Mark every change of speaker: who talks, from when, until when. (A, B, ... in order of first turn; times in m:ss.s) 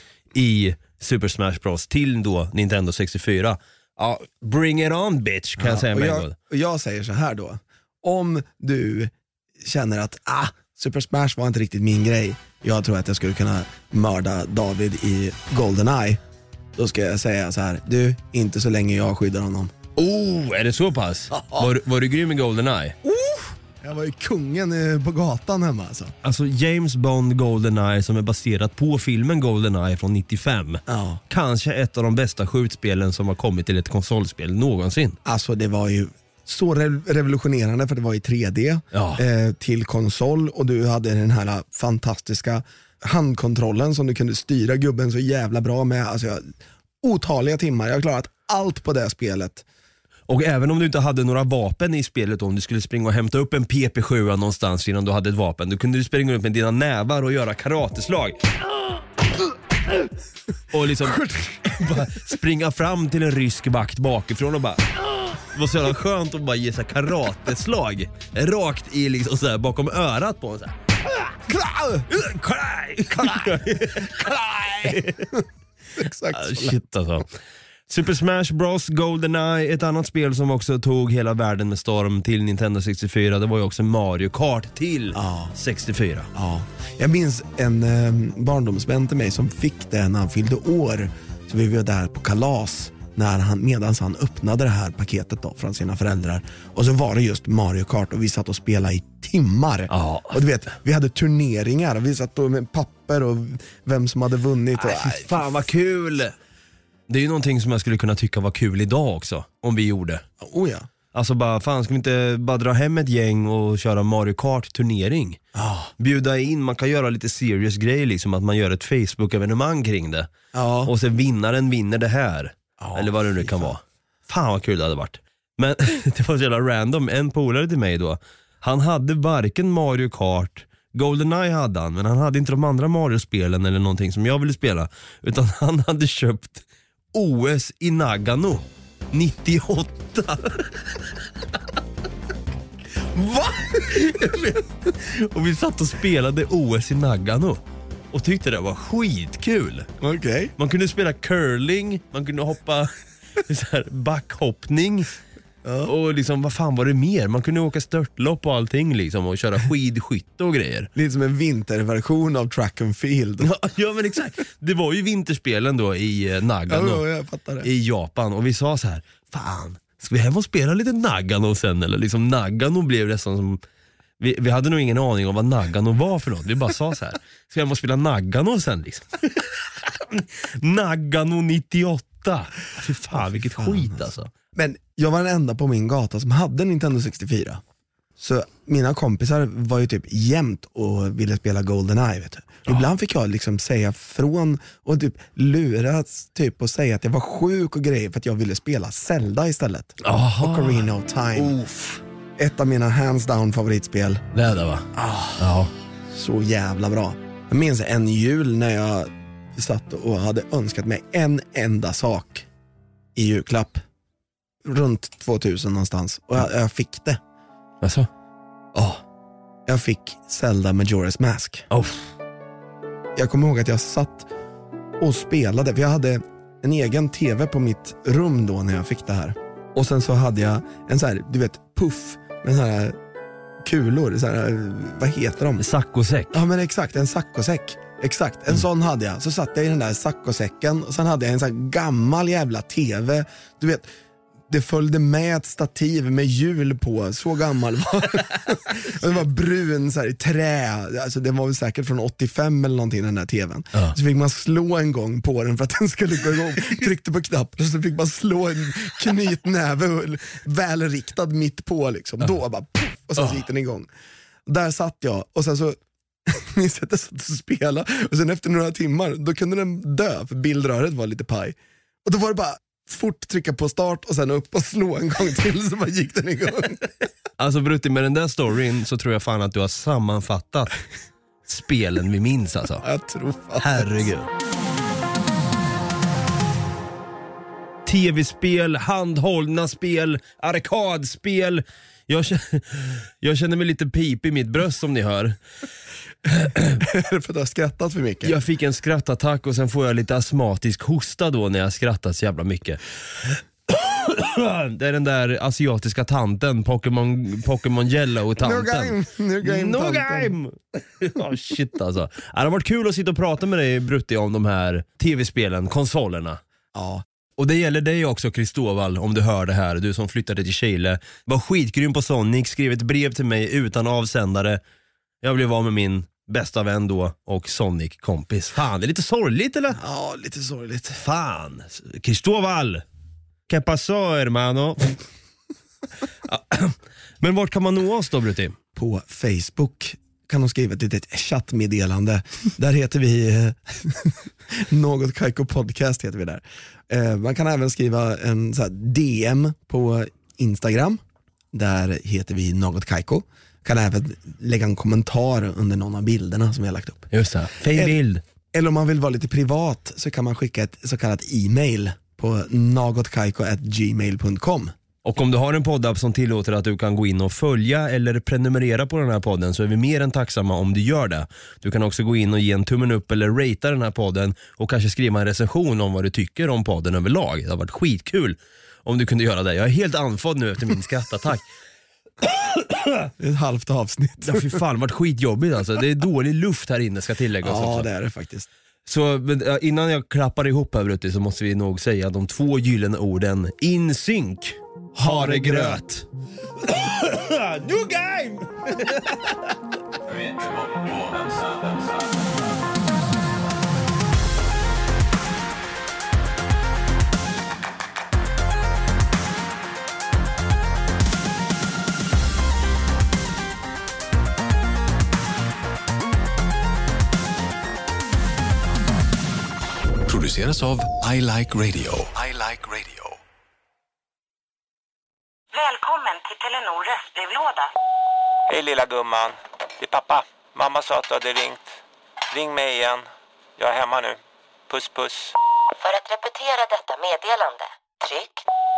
0:00.3-0:06.4 A
0:05.6-0:16.2 B
0:16.8-0:19.7 B
0:20.0-0:23.0 A
0:21.3-0:21.7 B
0:23.0-0:26.1 B
0:26.2-0:35.2 A
0:30.9-0:31.2 B
0:35.2-0:49.6 B
0:38.9-0:39.2 A
0:50.3-0:58.5 A
1:00.7-1:10.8 A
1:01.0-1:01.9 B
1:11.5-1:12.1 B
1:12.1-1:15.3 A
1:13.1-1:15.4 B
1:16.0-1:16.8 B
1:16.3-1:17.3 A
1:17.9-1:26.3 A
1:25.2-1:25.5 B
1:26.3-1:45.7 B
1:39.9-1:40.4 A
1:44.8-1:46.4 A
1:47.1-1:50.2 A
1:50.4-1:50.9 B
1:51.1-1:55.4 A
1:55.6-1:55.9 B
1:56.0-2:00.3 A
2:00.5-2:00.9 B
2:00.8-2:21.0 A
2:02.8-2:03.7 B
2:23.1-2:29.9 A
2:30.0-2:30.5 B
2:30.6-2:35.1 A
2:35.6-2:35.9 B
2:35.8-2:40.9 A
2:40.9-2:43.5 B
2:43.4-2:47.0 A
2:46.7-2:47.7 B
2:47.6-2:53.6 A
2:54.2-3:04.3 A
3:03.1-3:07.6 B
3:08.2-3:21.6 B
3:20.0-3:22.0 A
3:22.4-3:24.2 B
3:24.3-3:25.7 A
3:24.9-3:25.5 B
3:26.1-3:32.5 B
3:33.2-3:33.8 B
3:34.6-3:37.2 B
3:37.8-3:38.1 A
3:38.8-3:39.0 A
3:39.7-3:41.7 B
3:41.7-3:42.0 A
3:43.2-3:44.3 B
3:45.0-3:53.0 B
3:53.6-3:55.6 B
3:55.6-3:56.4 A
3:56.3-4:03.9 B
4:04.5-4:23.9 B
4:24.5-4:36.9 B
4:37.4-4:40.8 A
4:41.5-4:42.8 A
4:42.8-4:44.1 B
4:43.6-4:44.3 A
4:47.8-4:55.4 A
4:56.3-4:56.8 A
4:56.8-4:58.4 B
4:58.2-5:16.4 A
5:08.4-5:10.4 B
5:16.7-5:17.0 B
5:17.4-5:24.6 A
5:25.2-5:29.8 A
5:29.7-5:31.0 B
5:31.0-5:32.8 A
5:33.5-5:35.0 A
5:36.2-5:38.6 A
5:38.8-5:51.0 B
5:51.5-5:58.0 B
5:57.1-5:58.2 A
5:58.5-6:04.7 B
6:05.0-6:21.4 A
6:22.2-6:23.1 A
6:23.2-6:24.6 B
6:24.2-6:27.9 A
6:27.4-6:28.5 B
6:28.9-6:36.1 A
6:35.0-6:35.8 B
6:36.6-6:39.5 A
7:00.1-7:03.2 C
7:05.5-7:07.7 D
7:08.5-7:11.7 E
7:12.3-7:15.4 E
7:15.8-7:18.4 F